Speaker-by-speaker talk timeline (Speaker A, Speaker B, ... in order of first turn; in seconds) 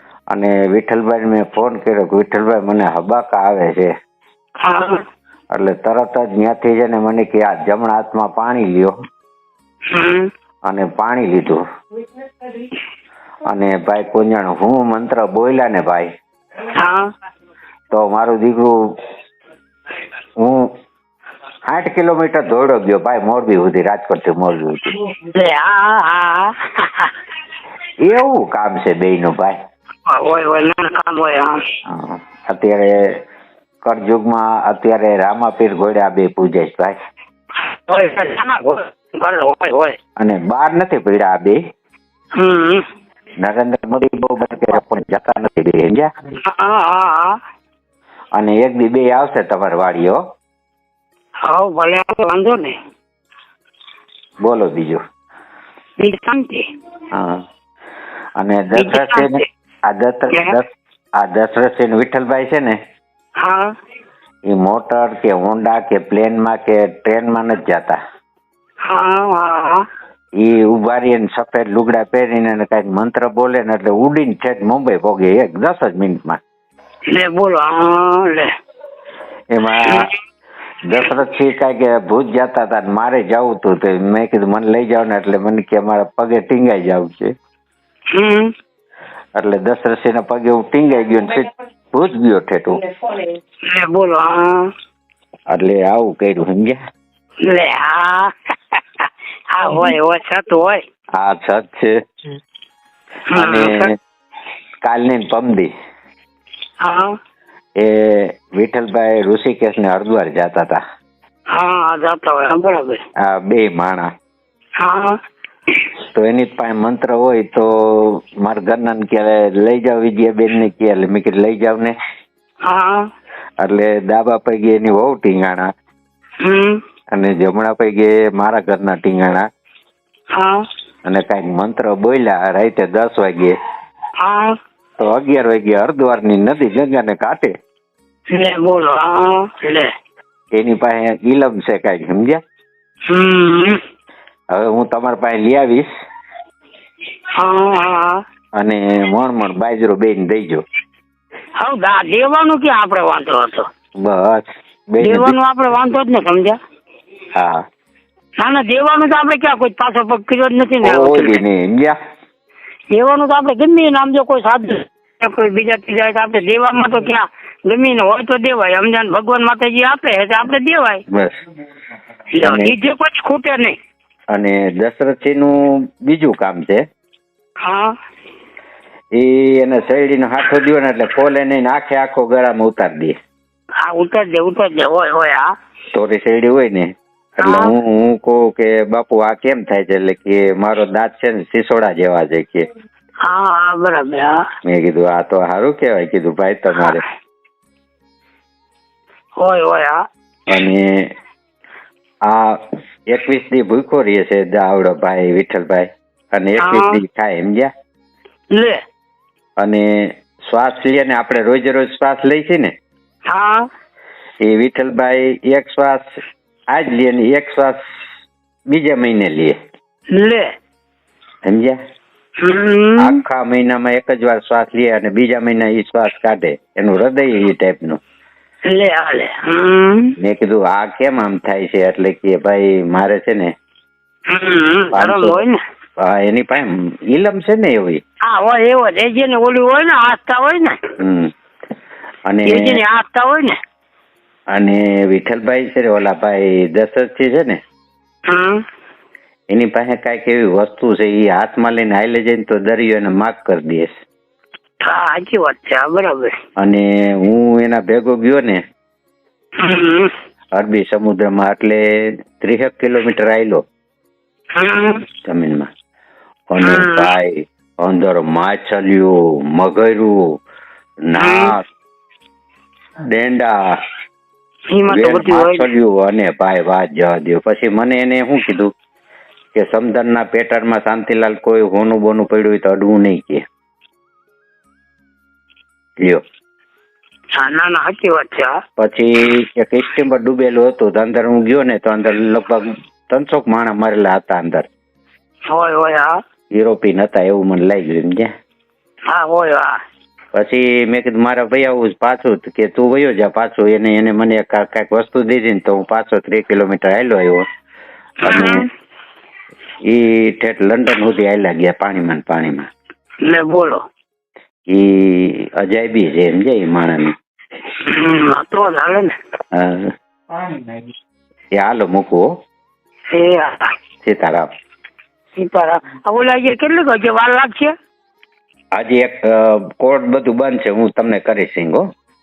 Speaker A: 0.3-3.9, 5.5-8.9, 10.7-11.6, 13.5-16.1, 17.9-18.7, 20.4-20.7, 21.7-24.9, 28.0-29.6, 31.9-33.1, 33.8-37.0, 40.2-41.6, 43.4-46.1, 48.4-50.2, 54.4-55.0, 57.1-57.4, 58.4-60.7, 61.2-62.8, 64.5-68.0, 70.4-76.4, 79.5-80.1, 80.9-87.3, 89.4-92.9, 95.5-96.8, 101.2-101.9, 103.3-103.9, 104.8-105.7, 107.8-110.8, 113.2-114.1, 116.1-121.9, 123.6-125.7, 127.1-129.4, 131.1-133.6, 135.0-137.5, 140.5-142.4, 144.5-145.9, 148.6-150.6, 154.0-155.3, 157.3-157.6, 160.8-161.9, 172.4-172.8, 174.3-176.8, 179.2-183.1, 185.9-192.7, 194.7-197.0, 200.5-201.0, 202.3-207.7, 209.6-212.7, 214.4-216.2, 216.7-217.8, 218.7-219.6, 221.4-221.8, 223.0-228.0, 230.2-233.5, 234.9-235.4, 236.0-238.0, 241.0-241.3, 242.3-242.8, 244.5-247.6, 249.5-253.9, 256.6-258.6, 260.5-263.6, 265.2-265.7, 266.5-270.2, 271.1-271.6, 273.1-273.6, 274.9-278.7, 279.6-283.4, 288.8-294.7, 296.5-298.3, 300.4-307.4, 308.2-308.7, 309.9-312.7, 314.7-317.1, 319.5-319.9, 321.6-322.2, 324.0-324.5, 328.7-331.8
Speaker B: 4.6-5.0, 9.9-10.3, 16.8-17.0, 25.1-27.1, 30.1-31.6, 37.6-40.0, 42.4-42.8, 46.4-47.4, 51.5-52.8, 56.0-56.6, 58.8-59.4, 60.3-60.6, 63.4-63.7, 68.8-69.8, 77.1-78.5, 88.1-88.5, 93.7-94.7, 97.4-100.8, 103.3-103.9, 106.8-107.1, 111.5-113.0, 114.8-115.1, 122.7-123.0, 126.4-126.8, 130.4-130.6, 134.2-134.5, 138.3-139.9, 143.1-143.8, 147.4-148.2, 151.6-153.7, 155.0-156.6, 158.4-161.4, 162.9-171.0, 172.4-173.8, 177.6-177.9, 183.8-185.5, 187.4-187.8, 193.2-194.4, 199.4-200.0, 206.6-207.0, 208.5-208.8, 213.3-213.6, 220.1-220.5, 222.4-223.2, 228.7-230.1, 234.3-235.6, 238.2-240.8, 242.4-243.5, 248.3-248.6, 254.8-256.3, 259.6-260.1, 264.6-265.1, 266.6-267.1, 271.2-271.6, 274.7-275.7, 287.4-288.6, 295.5-296.1, 299.1-299.8, 308.2-308.6, 313.2-313.8, 317.9-319.1, 323.1-323.7, 325.4-327.7